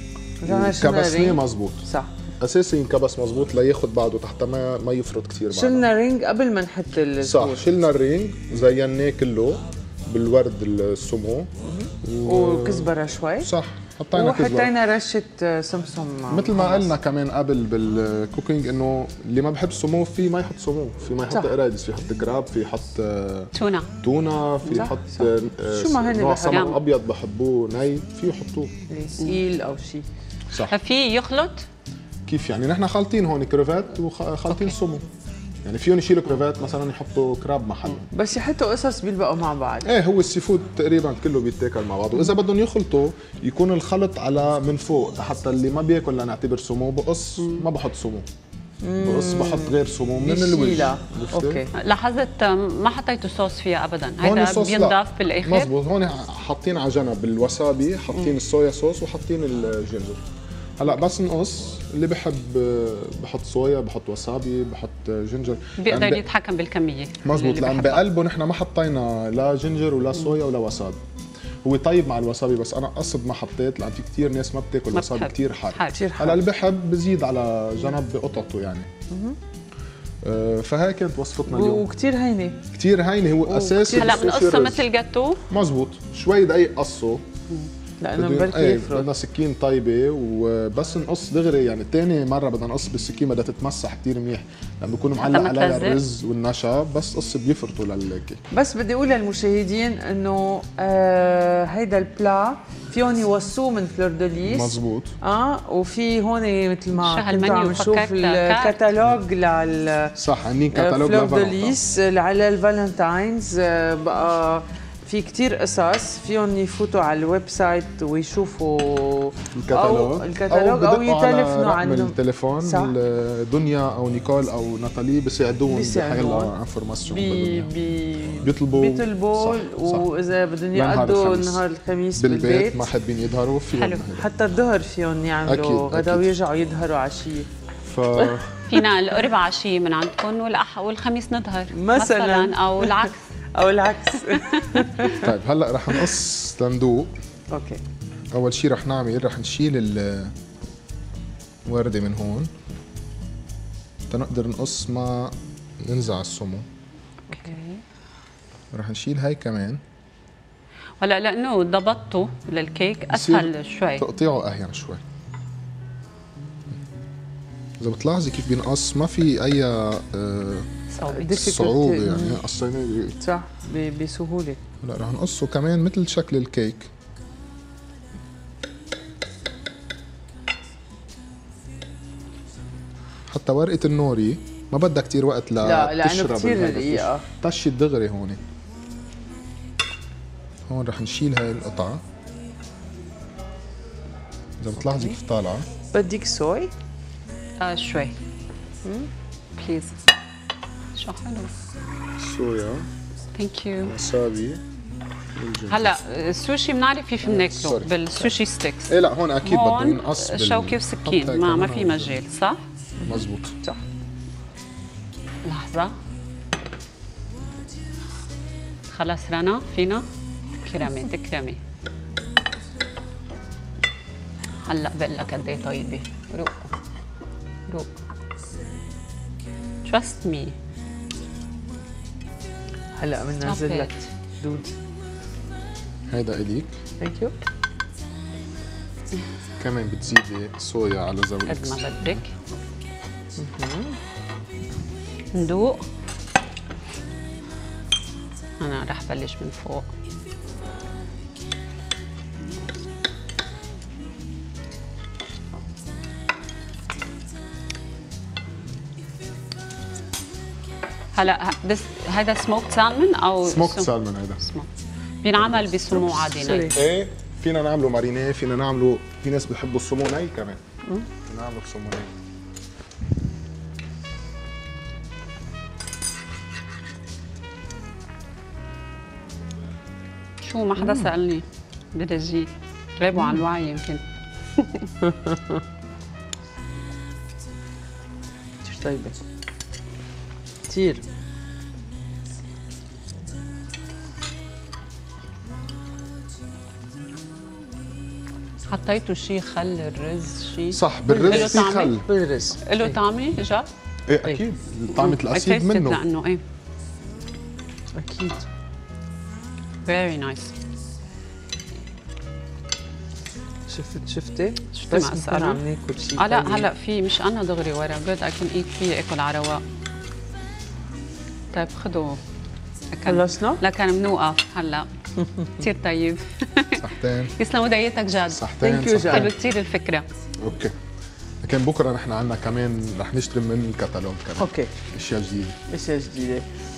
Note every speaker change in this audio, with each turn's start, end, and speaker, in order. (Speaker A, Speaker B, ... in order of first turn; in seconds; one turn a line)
Speaker A: 0.4-2.1
Speaker B: 0.5-1.9
Speaker B: 2.4-5.9
Speaker A: 5.5-7.7
Speaker B: 7.2-11.5
Speaker A: 11.6-13.5
Speaker B: 12.0-14.8
Speaker A: 14.1-16.9
Speaker B: 16.3-28.7
Speaker A: 21.3-21.6
Speaker C: 23.5-23.9
Speaker A: 24.7-26.8
Speaker C: 26.5-26.8
Speaker A: 28.9-30.1
Speaker B: 30.5-30.8
Speaker C: 30.7-31.7
Speaker B: 32.3-35.1
Speaker B: 35.6-38.1
Speaker A: 38.1-39.9
Speaker B: 39.8-48.3
Speaker A: 48.8-51.7
Speaker B: 49.0-51.7
Speaker C: 51.7-55.7
Speaker B: 54.2-60.2
Speaker B: 60.8-66.2
Speaker C: 65.8-68.0
Speaker B: 67.2-71.0
Speaker B: 71.7-78.9
Speaker C: 74.9-76.0
Speaker A: 75.9-76.4
Speaker A: 79.1-79.4
Speaker B: 80.2-81.9
Speaker A: 81.5-82.6
Speaker B: 82.7-84.9
Speaker A: 83.5-84.3
Speaker C: 83.9-85.4
Speaker B: 85.5-87.2
Speaker A: 88.0-89.1
Speaker B: 88.2-98.4
Speaker C: 95.2-96.0
Speaker A: 98.5-110.2
Speaker B: 104.5-105.2
Speaker C: 107.0-108.9
Speaker B: 110.2-111.8
Speaker A: 110.7-123.0
Speaker B: 119.5-127.7
Speaker A: 125.7-126.5
Speaker A: 127.1-132.9
Speaker B: 128.4-130.1
Speaker B: 130.7-131.7
Speaker B: 132.2-134.3
Speaker A: 133.7-137.5
Speaker B: 135.5-136.3
Speaker B: 137.8-138.7
Speaker C: 138.7-143.2
Speaker A: 141.7-145.3
Speaker C: 144.3-145.0
Speaker B: 145.1-147.1
Speaker A: 147.5-147.8
Speaker B: 148.3-150.3
Speaker B: 151.7-152.5
Speaker B: 154.1-156.7
Speaker A: 157.3-157.8
Speaker C: 157.3-157.6
Speaker B: 158.7-159.8
Speaker C: 161.0-164.1
Speaker B: 163.1-165.0
Speaker B: 167.8-170.7
Speaker C: 171.0-171.3
Speaker A: 171.0-172.4
Speaker B: 171.3-173.2
Speaker A: 173.2-174.6
Speaker B: 174.8-176.9
Speaker B: 183.3-188.4
Speaker A: 185.6-187.3
Speaker B: 190.7-192.0
Speaker B: 194.6-195.7
Speaker A: 195.9-196.7
Speaker C: 197.6-198.2
Speaker A: 198.8-199.1
Speaker C: 199.6-199.9
Speaker C: 200.9-201.5
Speaker B: 202.2-202.9
Speaker C: 203.3-203.9
Speaker B: 203.8-204.6
Speaker B: 205.3-206.0
Speaker C: 205.7-212.6
Speaker B: 207.2-207.9
Speaker B: 208.9-212.2
Speaker A: 213.0-213.8
Speaker B: 213.1-213.6
Speaker C: 215.4-216.0
Speaker C: 218.9-220.1
Speaker C: 220.6-221.6
Speaker C: 224.6-226.6
Speaker C: 229.8-230.6
Speaker A: 233.0-234.7
Speaker C: 233.4-233.9
Speaker B: 236.1-236.8
Speaker A: 237.0-237.3
Speaker B: 239.6-242.2
Speaker C: 241.5-242.2
Speaker A: 243.4-244.0
Speaker C: 245.3-245.8
Speaker C: 248.6-249.9
Speaker C: 261.1-264.7
Speaker B: 263.4-264.4
Speaker C: 265.2-266.8
Speaker B: 265.4-266.1
Speaker A: 266.2-266.8
Speaker B: 266.7-270.6
Speaker B: 271.2-272.1
Speaker C: 280.4-284.0
Speaker A: 280.8-281.1
Speaker A: 283.2-283.4
Speaker C: 284.6-284.9
Speaker A: 285.0-285.6
Speaker A: 288.6-289.2
Speaker A: 290.7-291.0
Speaker C: 298.7-302.0
Speaker B: 300.7-302.1
Speaker A: 301.1-303.0
Speaker C: 302.6-303.7
Speaker B: 304.1-306.0
Speaker C: 304.9-306.4
Speaker A: 307.9-308.5
Speaker C: 309.9-310.5
Speaker A: 313.7-316.7
Speaker C: 314.8-315.6
Speaker C: 316.2-319.6
Speaker C: 321.5-322.2
Speaker C: 322.9-324.9
Speaker A: 323.1-323.6
Speaker A: 325.2-325.6
Speaker C: 325.5-328.5
Speaker B: 326.8-327.4
Speaker B: 328.3-329.4
Speaker A: 328.6-329.3
Speaker C: 329.0-330.1
Speaker B: 330.4-330.8
Speaker B: 331.4-335.6
Speaker A: 334.4-334.7
Speaker A: 335.7-336.5